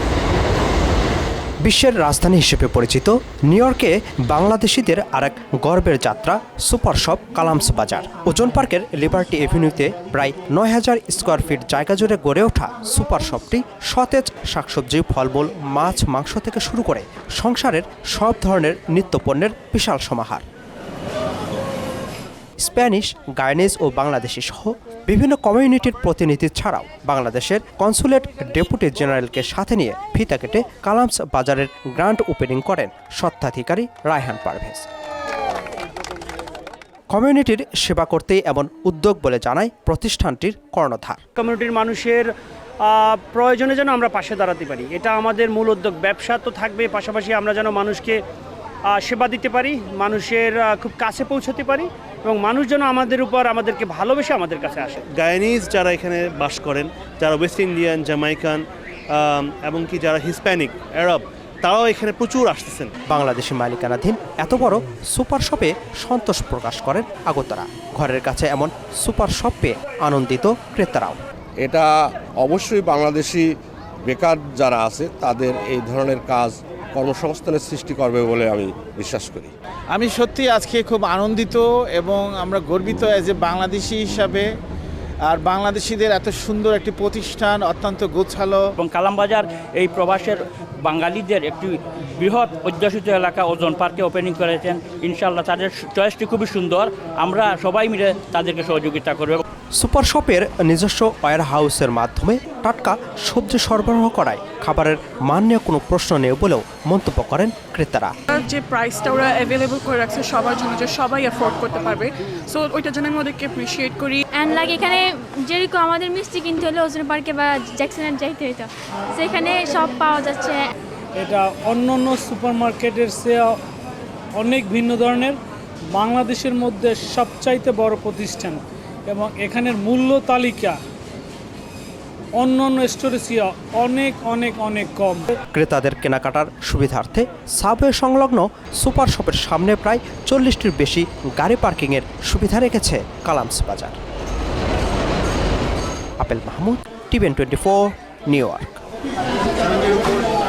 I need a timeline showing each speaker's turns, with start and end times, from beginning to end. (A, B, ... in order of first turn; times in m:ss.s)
0:01.6-0:20.4 A
0:22.6-0:34.9 A
0:37.1-0:41.2 A
0:41.4-0:48.2 B
0:48.9-0:55.0 B
0:55.1-0:58.6 C
0:59.2-1:02.9 C
1:03.1-1:11.2 A
1:11.6-1:13.5 D
1:14.0-1:19.5 D
1:19.9-1:24.5 E
1:25.2-1:28.7 E
1:28.8-1:39.4 F
1:39.7-1:48.2 A
1:48.3-1:54.4 G
1:54.4-2:00.7 H
2:01.2-2:03.6 I
2:04.4-2:05.4 I
2:05.9-2:10.8 I
2:12.4-2:15.3 I
2:15.5-2:24.0 A
2:26.2-2:28.8 A